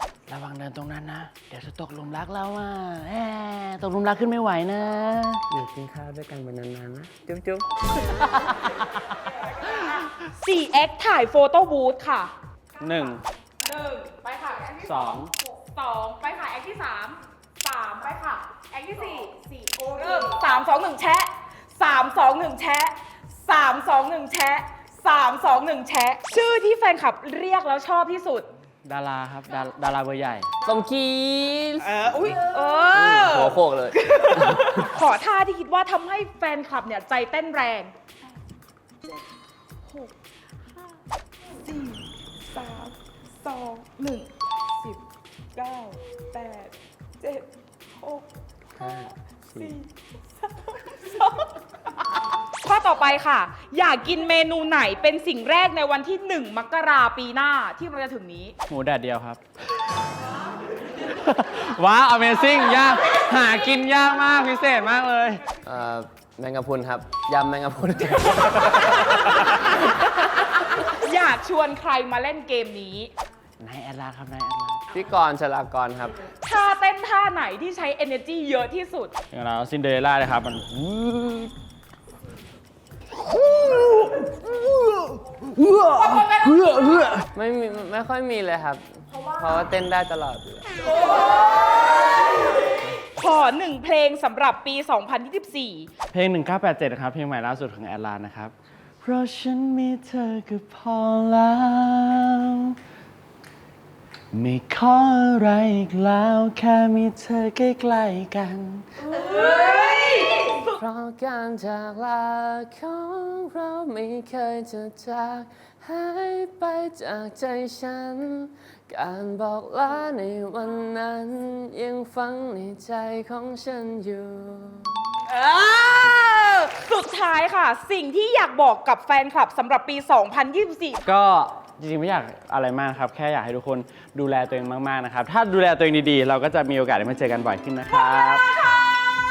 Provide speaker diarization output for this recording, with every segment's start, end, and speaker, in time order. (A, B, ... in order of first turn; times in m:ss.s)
0:00.3-0:05.4 A
0:05.5-0:08.4 B
0:09.6-0:12.3 C
0:12.8-0:13.2 A
0:13.6-0:28.5 C
0:14.8-0:15.3 A
0:28.8-0:30.5 A
0:30.6-0:32.4 B
0:32.0-0:37.9 C
0:32.9-0:34.9 B
0:41.5-0:45.0 C
0:45.5-0:48.2 C
0:48.8-0:49.7 B
0:50.6-0:51.5 C
0:52.5-0:58.6 C
0:58.7-0:59.4 A
1:01.0-1:05.4 A
1:05.6-1:09.6 B
1:10.4-1:13.1 C
1:13.6-1:14.8 A
1:14.9-1:16.2 B
1:16.4-1:19.1 C
1:19.3-1:21.5 A
1:23.7-1:24.0 A
1:25.6-1:27.2 A
1:27.3-1:31.0 B
1:33.0-1:35.9 C
1:36.1-1:42.8 A
1:44.3-1:48.8 A
1:49.1-1:50.7 C
1:50.7-2:05.0 B
2:05.2-2:11.1 C
2:11.0-2:18.5 A